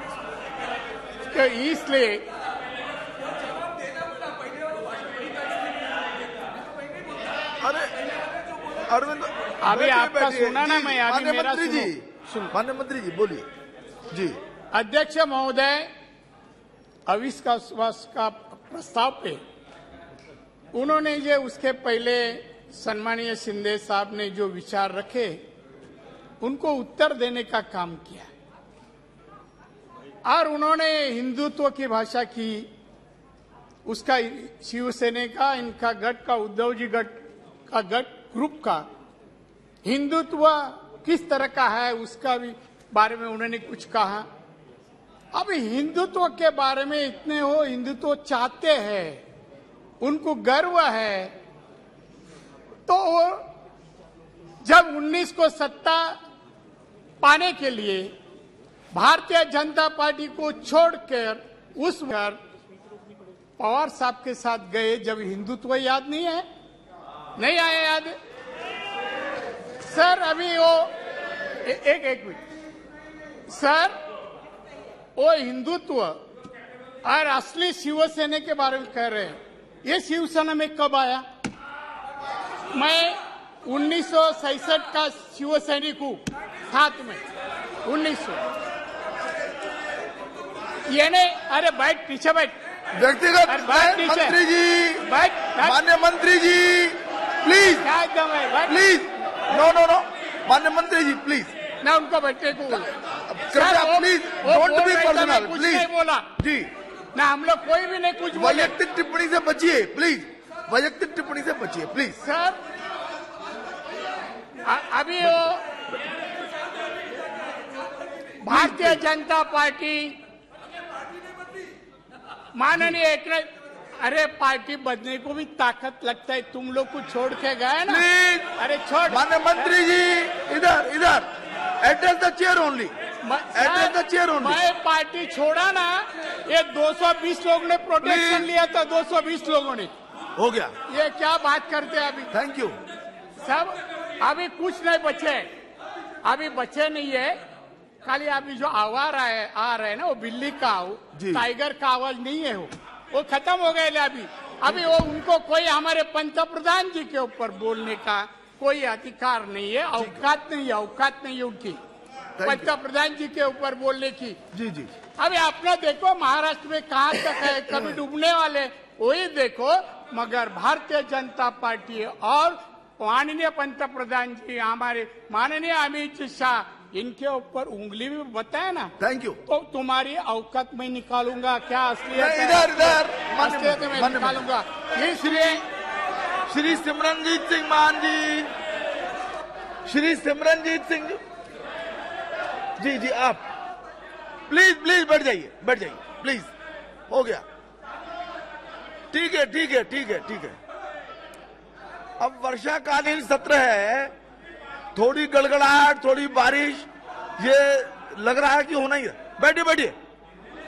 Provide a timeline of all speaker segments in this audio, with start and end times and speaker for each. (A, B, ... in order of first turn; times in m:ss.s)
0:01.2-0:02.3 A
0:07.6-0:07.9 B
0:08.9-0:13.5 B
0:09.6-0:12.5 A
0:14.1-0:14.4 B
0:14.7-0:15.9 A
0:17.1-0:19.4 A
0:20.7-0:25.4 A
0:26.4-0:28.3 A
0:30.2-0:32.7 A
0:33.8-0:38.9 A
0:39.8-0:44.3 A
0:45.3-0:49.2 A
0:50.0-0:51.4 A
0:52.9-0:53.6 A
0:54.6-0:56.2 A
0:57.2-0:58.2 A
0:58.9-1:02.4 A
1:03.6-1:06.5 A
1:07.4-1:08.2 A
1:09.8-1:10.9 A
1:11.6-1:12.4 A
1:13.5-1:14.0 A
1:15.2-1:16.2 A
1:17.0-1:21.2 A
1:22.7-1:27.2 A
1:27.8-1:28.5 A
1:30.9-1:32.6 A
1:33.0-1:35.1 B
1:33.5-1:34.4 A
1:35.1-1:35.8 A
1:35.6-1:37.9 B
1:37.8-1:38.8 A
1:38.7-1:41.5 B
1:41.8-1:42.9 A
1:43.3-1:46.7 B
1:43.5-1:46.3 A
1:47.2-1:48.7 A
1:48.3-1:52.2 B
1:52.2-1:52.6 A
1:54.6-1:55.7 A
1:58.4-2:00.2 A
1:58.5-1:59.0 B
2:02.6-2:08.0 A
2:07.9-2:08.5 B
2:08.6-2:09.7 A
2:09.1-2:13.0 B
2:13.2-2:19.9 A
2:13.5-2:14.6 B
2:18.0-2:18.5 B
2:20.4-2:20.7 B
2:20.9-2:22.3 A
2:22.3-2:22.8 B
2:23.4-2:25.5 A
2:26.2-2:27.4 A
2:28.0-2:41.8 A
2:31.2-2:31.4 B
2:34.7-2:35.0 B
2:40.0-2:40.2 B
2:42.4-2:42.8 B
2:42.4-2:44.4 A
2:44.5-2:44.9 B
2:45.2-2:58.9 A
2:47.7-2:48.0 B
2:59.0-2:59.4 B
2:59.5-3:05.6 A
3:02.1-3:04.4 B
3:05.1-3:05.6 B
3:06.5-3:08.5 B
3:09.9-3:11.2 B
3:12.8-3:13.4 B
3:14.5-3:16.5 B
3:17.1-3:17.4 B
3:19.1-3:20.6 B
3:22.2-3:24.1 B
3:25.0-3:30.0 B